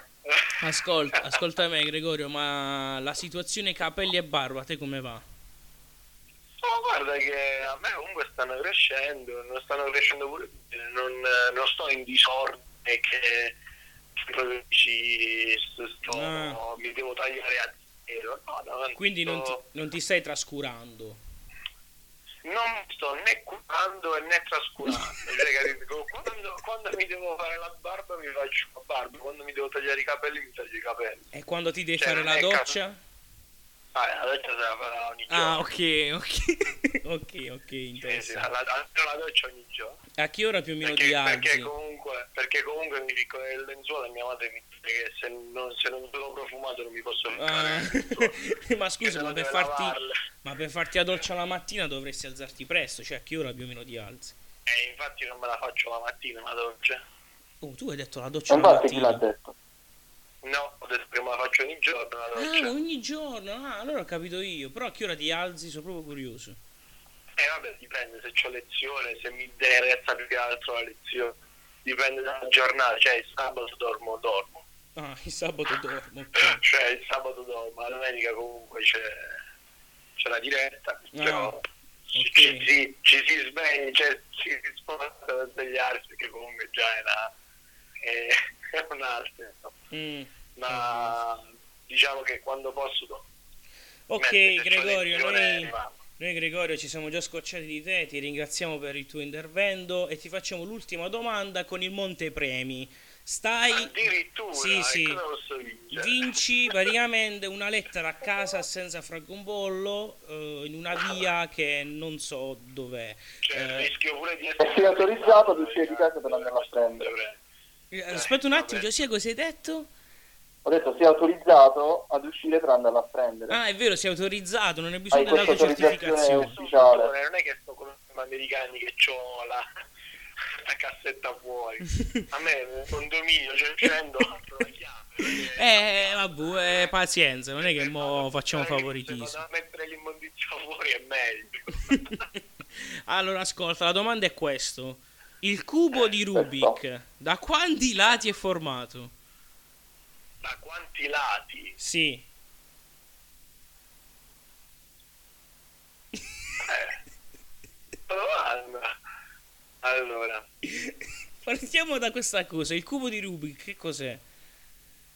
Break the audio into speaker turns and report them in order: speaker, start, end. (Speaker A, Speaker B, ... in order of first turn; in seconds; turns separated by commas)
Speaker A: 0.2-0.5, Speaker B: 0.6-5.2, Speaker A: 6.6-13.6, Speaker A: 14.2-19.6, Speaker B: 16.1-16.6, Speaker B: 19.0-21.2, Speaker A: 22.4-31.3, Speaker B: 31.3-33.0, Speaker A: 32.0-32.8, Speaker A: 34.0-35.6, Speaker B: 35.3-38.5, Speaker A: 38.0-40.0, Speaker B: 40.2-41.7, Speaker A: 40.8-48.4, Speaker B: 47.4-54.4, Speaker A: 49.0-50.1, Speaker A: 54.7-57.0, Speaker B: 57.6-59.2, Speaker C: 58.5-59.5, Speaker A: 60.4-62.7, Speaker B: 62.4-66.6, Speaker A: 67.4-74.7, Speaker B: 75.0-76.6, Speaker A: 76.4-79.4, Speaker A: 80.2-81.6, Speaker B: 81.1-81.5, Speaker B: 82.1-82.7, Speaker A: 82.2-87.3, Speaker A: 88.0-89.8, Speaker B: 89.9-91.2, Speaker A: 90.6-93.3, Speaker B: 94.1-105.2, Speaker A: 94.2-96.0, Speaker A: 103.7-106.2, Speaker B: 105.9-113.9, Speaker A: 113.4-117.4, Speaker C: 114.6-117.1, Speaker B: 117.9-119.9, Speaker A: 118.1-118.9, Speaker C: 120.7-123.6, Speaker B: 123.5-126.6, Speaker C: 125.1-127.1, Speaker A: 125.3-129.6, Speaker A: 130.6-136.9, Speaker B: 135.5-139.4, Speaker A: 137.6-142.2, Speaker B: 141.9-142.1, Speaker B: 142.7-149.1, Speaker C: 146.3-146.8, Speaker A: 150.4-151.8, Speaker B: 151.8-152.3, Speaker A: 156.6-157.0, Speaker A: 158.1-158.9, Speaker A: 159.8-160.4, Speaker B: 160.7-164.2